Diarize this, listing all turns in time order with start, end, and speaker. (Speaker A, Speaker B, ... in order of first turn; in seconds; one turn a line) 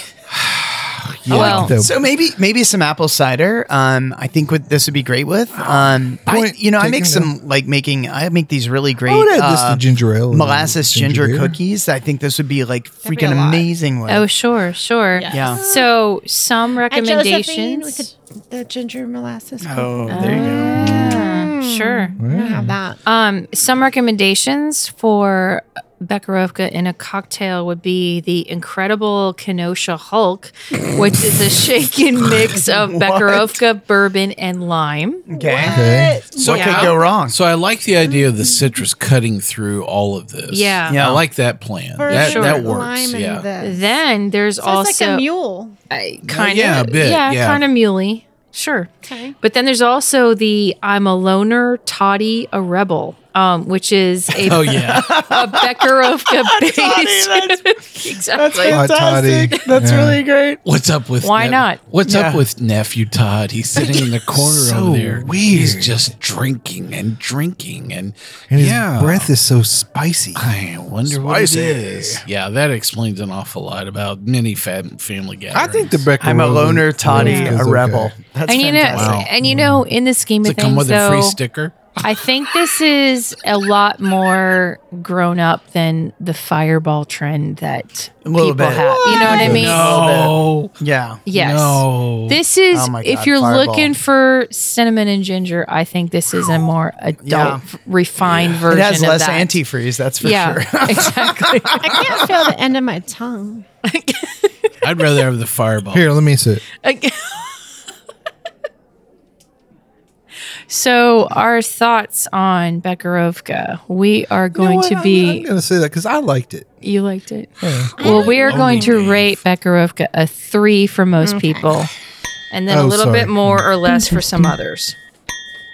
Speaker A: 0.3-1.7
Speaker B: 1.2-1.9
Speaker C: 1.3-14.3
Speaker D: 1.3-1.7
Speaker B: 6.3-7.3
Speaker B: 9.1-11.6
Speaker E: 13.0-13.7
Speaker D: 14.1-18.1
Speaker E: 15.2-15.9
Speaker C: 15.3-15.6
Speaker E: 16.9-23.0
Speaker C: 19.6-21.0
Speaker D: 20.1-22.2
Speaker B: 22.2-22.7
Speaker D: 23.1-35.3
Speaker C: 32.5-33.6
Speaker C: 35.3-35.9
Speaker E: 35.3-36.9
Speaker B: 35.7-36.2
Speaker A: 36.4-43.5
Speaker C: 36.4-37.4
Speaker D: 36.5-36.9
Speaker D: 40.5-41.0
Speaker C: 40.9-41.2
Speaker E: 42.0-44.0
Speaker D: 42.1-42.7
Speaker D: 43.6-45.3
Speaker E: 44.6-45.8
Speaker D: 45.9-58.8
Speaker A: 46.3-47.6
Speaker E: 49.0-49.4
Speaker C: 54.4-60.6
Speaker A: 54.5-55.1
Speaker B: 58.6-60.2
Speaker A: 60.6-69.3
Speaker D: 61.2-61.8
Speaker C: 62.0-62.4
Speaker B: 64.3-66.1
Speaker B: 68.5-70.5
Speaker A: 70.3-76.0
Speaker B: 71.1-72.2
Speaker B: 75.5-78.1
Speaker C: 76.2-79.3
Speaker D: 77.1-77.5
Speaker D: 78.5-81.4
Speaker A: 78.9-79.3
Speaker B: 79.4-79.8
Speaker A: 80.4-81.9
Speaker D: 82.0-89.9
Speaker C: 88.2-91.2
Speaker E: 88.8-89.5
Speaker A: 89.3-90.7
Speaker D: 91.3-99.6
Speaker A: 91.3-92.4
Speaker C: 92.7-93.9
Speaker C: 97.2-97.6
Speaker A: 98.2-98.6
Speaker C: 98.7-102.3
Speaker D: 100.2-102.2
Speaker E: 101.8-103.7
Speaker D: 103.8-104.7
Speaker A: 104.8-106.1
Speaker B: 105.9-106.6
Speaker D: 106.8-107.6
Speaker D: 110.7-115.5
Speaker B: 114.5-116.7
Speaker D: 116.8-121.9
Speaker B: 117.6-118.0
Speaker E: 118.0-119.0
Speaker A: 118.0-119.4
Speaker E: 121.2-121.8
Speaker D: 122.5-125.0
Speaker B: 122.7-124.5